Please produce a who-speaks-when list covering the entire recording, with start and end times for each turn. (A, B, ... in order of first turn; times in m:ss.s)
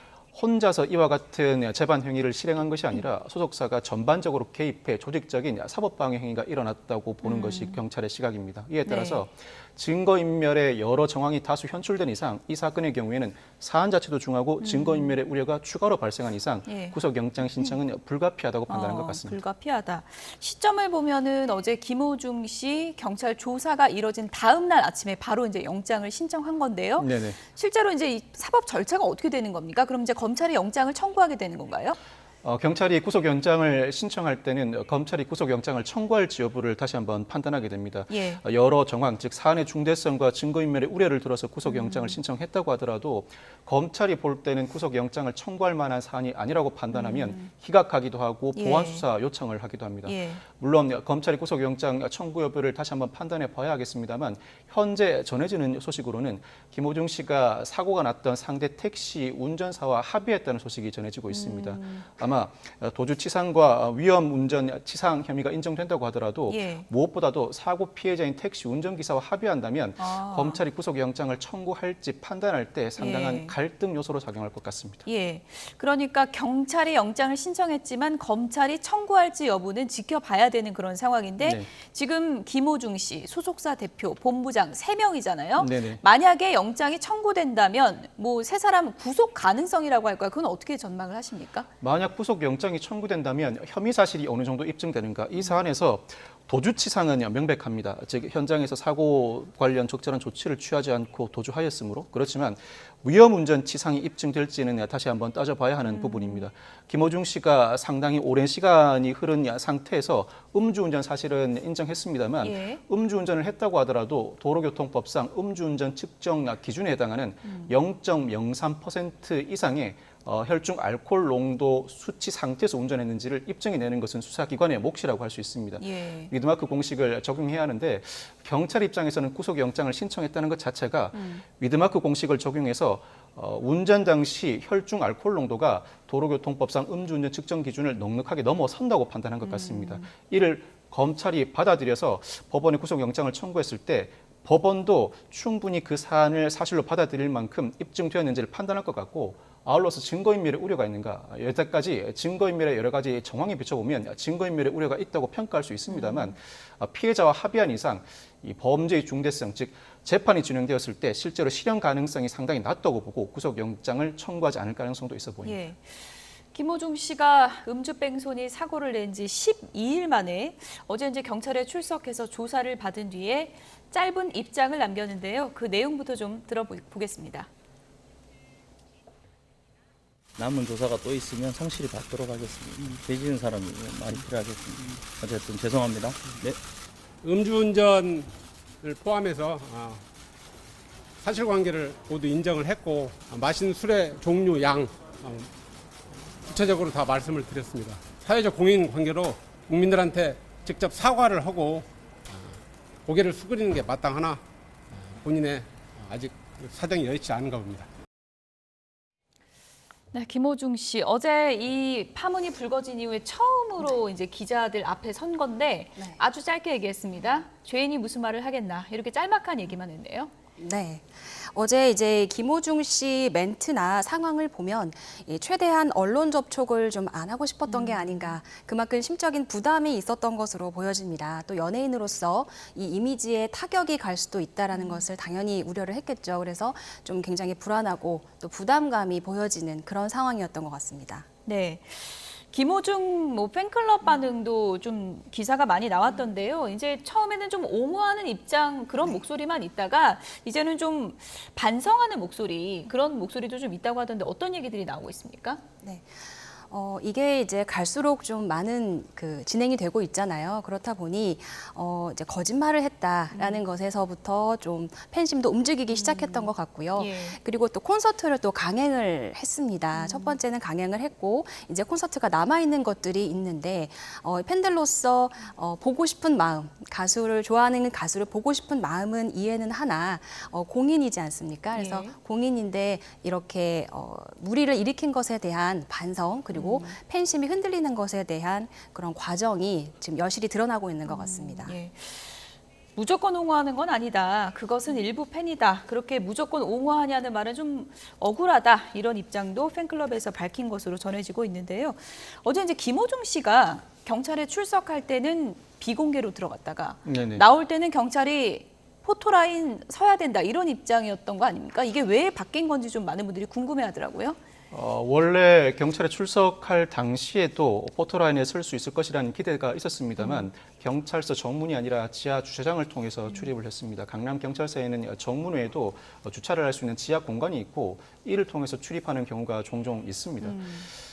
0:00.3-0:19.4 A
0:07.2-0:07.8 B
0:08.8-0:09.2 B
0:14.6-0:15.2 B
0:16.7-0:17.0 B
0:18.7-0:32.0 B
0:27.0-0:27.4 A
0:32.4-1:15.0 A
0:38.1-0:38.4 B
0:41.6-0:42.2 B
0:46.9-0:47.5 B
0:48.5-0:49.0 B
0:50.0-0:50.4 B
1:01.3-1:02.2 B
1:06.5-1:06.9 B
1:10.0-1:10.6 B
1:13.0-1:13.5 B
1:15.0-1:31.7 B
1:21.4-1:21.7 A
1:25.6-1:26.0 A
1:31.8-2:45.6 A
1:45.8-1:46.5 B
1:52.4-1:52.8 B
1:57.4-1:57.7 B
2:05.8-2:06.3 B
2:11.1-2:11.4 B
2:19.4-2:20.1 B
2:35.9-2:36.3 B
2:45.4-2:46.0 B
2:46.5-2:57.5 B
3:00.4-3:06.6 C
3:07.2-3:08.3 D
3:08.8-3:10.0 D
3:11.2-3:15.5 D
3:16.1-3:27.9 D
3:30.1-3:40.3 B
3:40.6-4:01.2 E
3:47.6-3:48.3 B
3:54.7-3:55.0 B
4:01.4-4:15.6 B
4:15.8-4:51.7 E
4:23.3-4:23.6 B
4:25.9-4:27.4 B
4:29.9-4:30.4 B
4:41.7-4:42.1 B
4:46.5-4:47.0 B
4:51.0-4:52.4 B
4:52.9-5:14.4 B
5:07.0-5:07.4 A
5:14.7-5:30.7 A
5:20.2-5:20.5 B
5:30.4-5:30.9 B